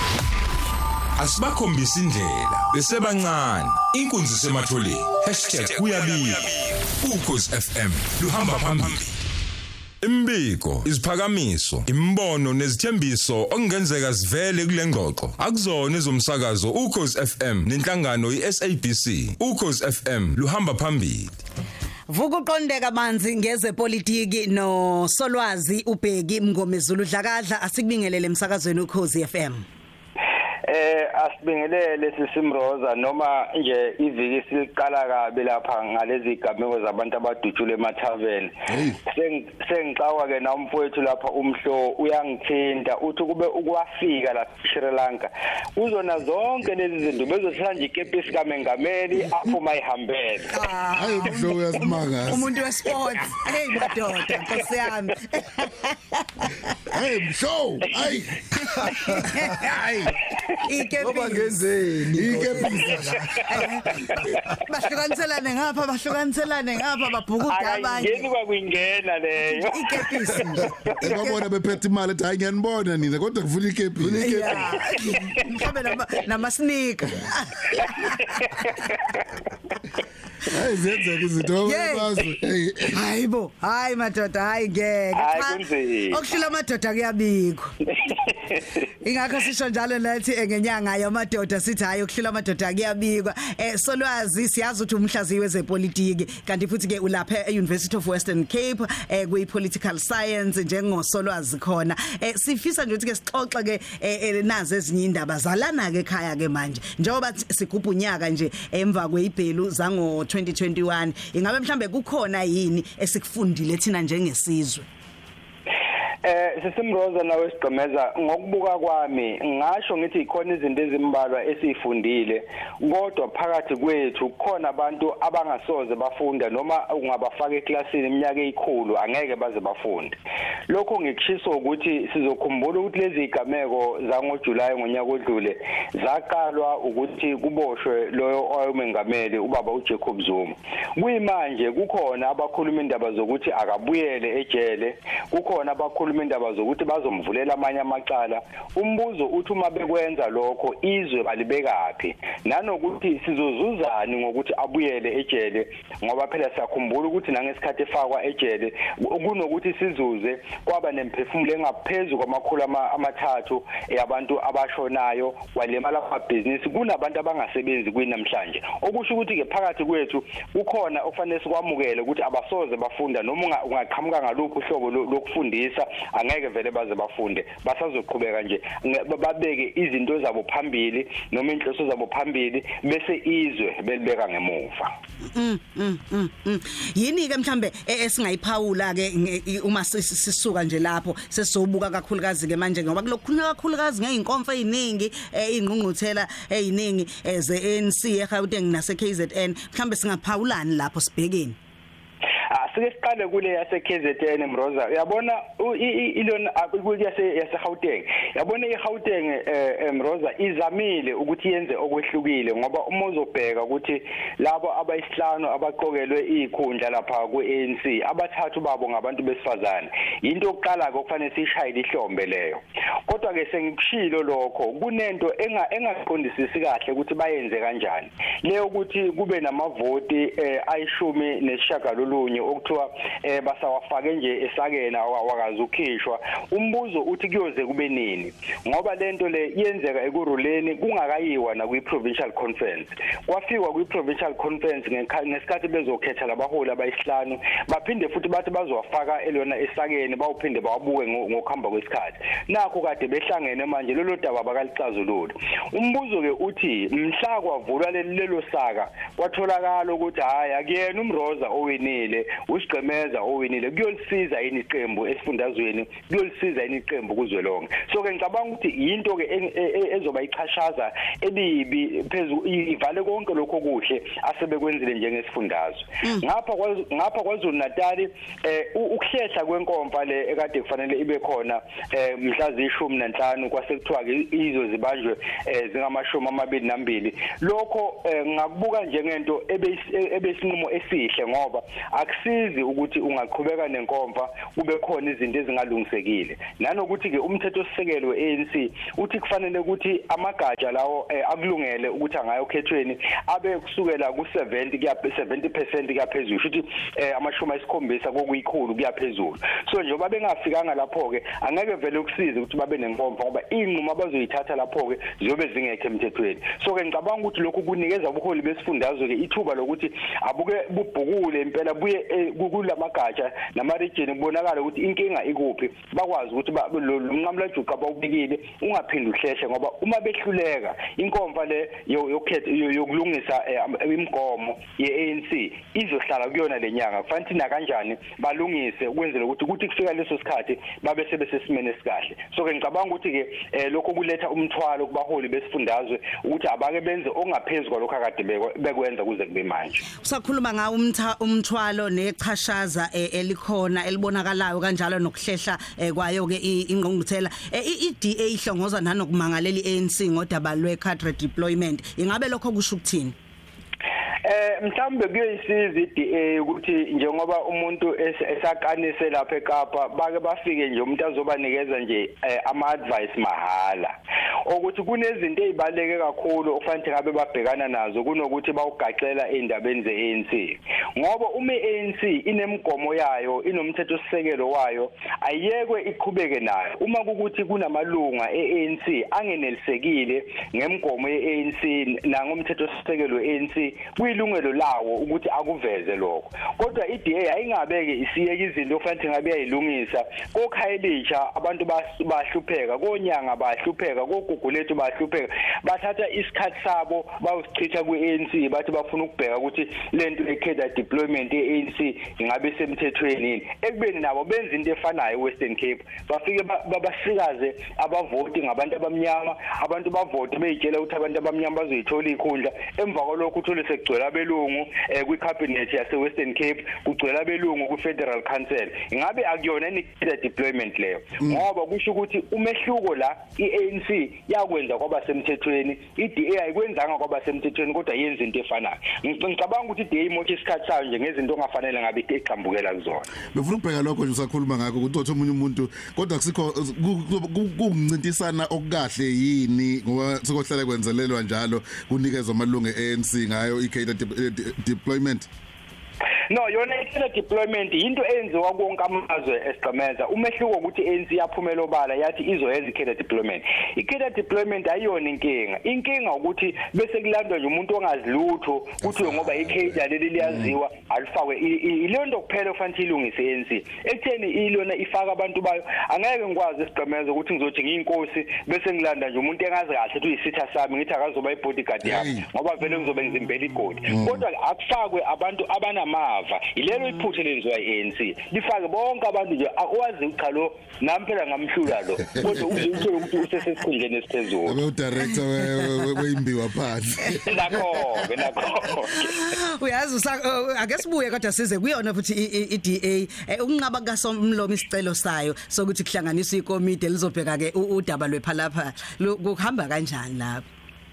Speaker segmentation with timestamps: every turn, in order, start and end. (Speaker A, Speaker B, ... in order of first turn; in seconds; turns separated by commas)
Speaker A: 1.2-9.1, Speaker A: 10.0-21.4, Speaker B: 22.1-29.6, Speaker C: 30.6-38.5, Speaker D: 38.7-39.0, Speaker C: 39.1-50.5, Speaker B: 50.5-56.5, Speaker D: 50.9-52.5, Speaker C: 53.7-54.4, Speaker D: 56.9-58.4, Speaker E: 58.9-59.6, Speaker B: 59.2-59.6, Speaker D: 59.6-60.1, Speaker C: 60.3-60.6, Speaker B: 60.6-61.6, Speaker E: 61.0-64.4, Speaker D: 62.1-63.1, Speaker B: 62.3-64.1, Speaker C: 63.9-64.4, Speaker B: 64.6-68.3, Speaker C: 67.5-71.1, Speaker B: 69.4-71.5, Speaker D: 71.0-75.2, Speaker B: 74.0-78.5, Speaker C: 74.5-75.3, Speaker C: 77.8-79.1, Speaker D: 80.4-83.0, Speaker B: 81.6-82.2, Speaker B: 82.9-87.8, Speaker C: 85.2-86.2, Speaker C: 87.9-88.5, Speaker B: 88.7-114.8, Speaker C: 116.2-130.2, Speaker C: 130.7-184.9, Speaker B: 185.3-201.6, Speaker C: 202.5-349.8, Speaker B: 350.0-363.1, Speaker C: 364.2-373.9, Speaker C: 374.4-443.1, Speaker D: 443.3-455.3, Speaker C: 456.3-494.6, Speaker D: 481.8-482.2, Speaker D: 483.9-484.2, Speaker D: 494.5-497.6, Speaker C: 497.2-499.3, Speaker B: 499.0-510.4